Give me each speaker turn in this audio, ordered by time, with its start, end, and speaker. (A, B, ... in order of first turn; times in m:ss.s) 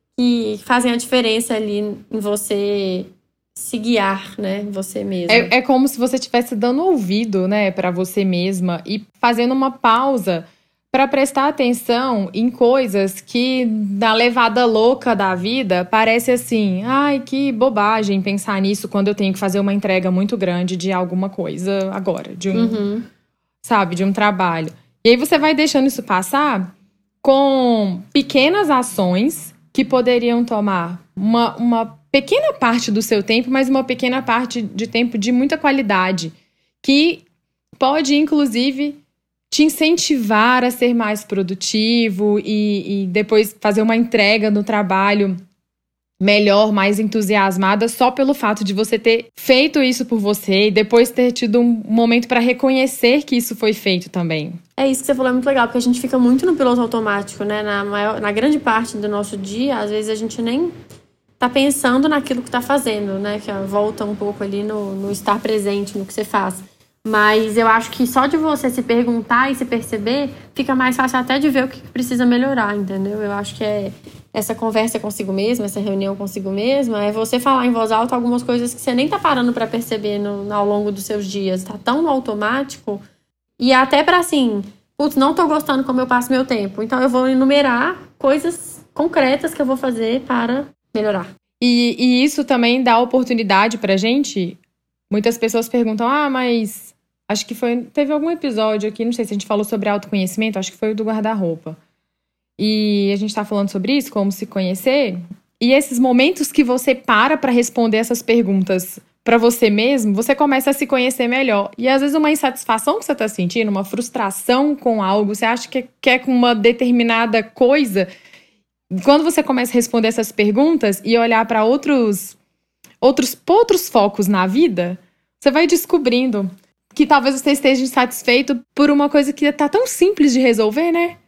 0:00.2-0:05.5 A
0:05.3-0:22.8 B
0:22.5-0:23.0 A
0:23.6-0:26.7 B
0:27.2-0:37.2 B
0:37.8-0:39.0 B
0:39.5-0:45.4 B
0:46.2-0:54.6 B
0:54.8-1:00.7 A
1:01.4-1:23.0 A
1:23.6-1:31.3 A
1:31.6-1:34.6 B
1:35.1-1:41.8 B
1:42.6-1:58.1 B
1:58.9-2:02.4 B
2:03.0-2:11.2 B